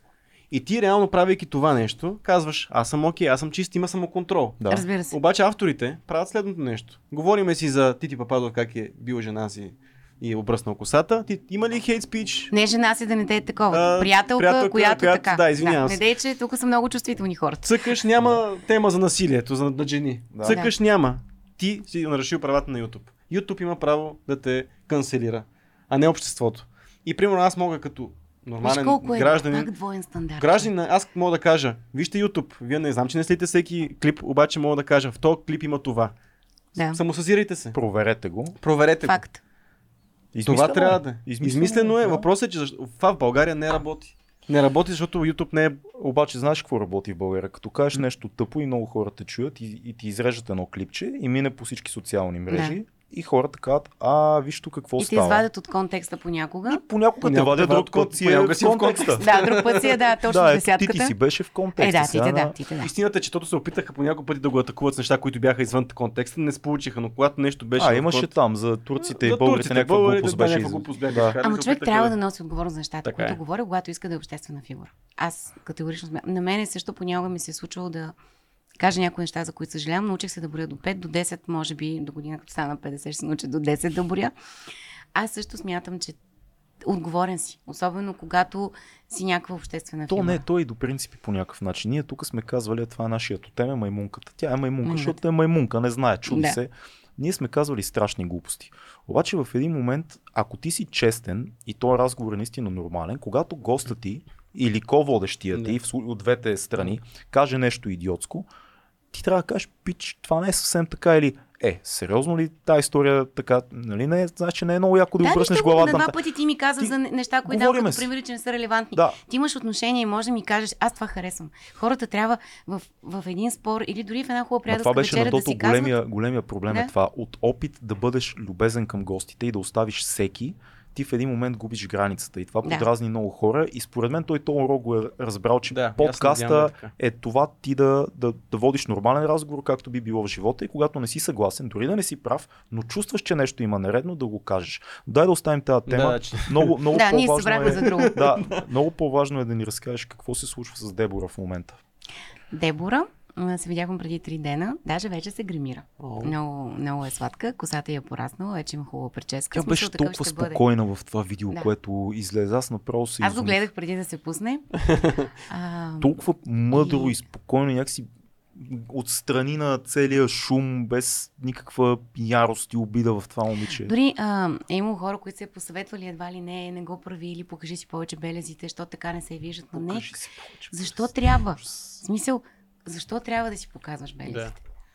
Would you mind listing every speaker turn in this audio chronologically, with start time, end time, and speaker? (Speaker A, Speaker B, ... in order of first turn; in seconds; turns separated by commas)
Speaker A: 0.5-12.5, Speaker B: 4.6-4.9, Speaker C: 4.7-5.2, Speaker C: 12.5-17.9, Speaker A: 13.7-16.0, Speaker A: 17.6-29.7, Speaker B: 20.3-20.6, Speaker C: 20.5-20.7, Speaker C: 28.6-30.7, Speaker A: 30.4-36.1, Speaker C: 36.8-37.0, Speaker A: 36.9-37.8, Speaker B: 37.7-38.6, Speaker A: 38.6-39.2, Speaker C: 39.0-39.4, Speaker B: 40.3-42.3, Speaker A: 40.5-45.9, Speaker B: 45.9-55.5, Speaker C: 52.5-52.8, Speaker C: 55.0-56.8, Speaker B: 56.7-59.3, Speaker A: 57.2-60.1, Speaker C: 59.2-61.1, Speaker B: 60.2-62.5, Speaker C: 61.8-62.9, Speaker A: 62.8-68.3, Speaker B: 67.8-71.4, Speaker A: 69.0-72.2, Speaker C: 71.4-78.1, Speaker A: 73.0-73.4, Speaker C: 78.8-84.3, Speaker C: 85.2-86.2, Speaker C: 86.8-90.4, Speaker B: 90.1-108.5, Speaker C: 94.8-95.2, Speaker C: 96.3-96.6, Speaker B: 109.1-116.2, Speaker C: 115.2-126.0, Speaker B: 117.5-118.1, Speaker B: 124.7-151.8, Speaker A: 135.7-136.9, Speaker A: 145.9-146.8, Speaker C: 146.9-148.3, Speaker A: 147.8-148.6, Speaker C: 152.5-160.6, Speaker A: 156.0-156.4, Speaker B: 159.5-163.6, Speaker C: 163.2-164.7, Speaker A: 164.9-165.3, Speaker C: 165.5-166.2, Speaker B: 166.0-173.9, Speaker C: 166.7-167.2, Speaker C: 173.9-180.2, Speaker B: 179.7-181.9, Speaker C: 180.7-184.6, Speaker A: 184.2-184.5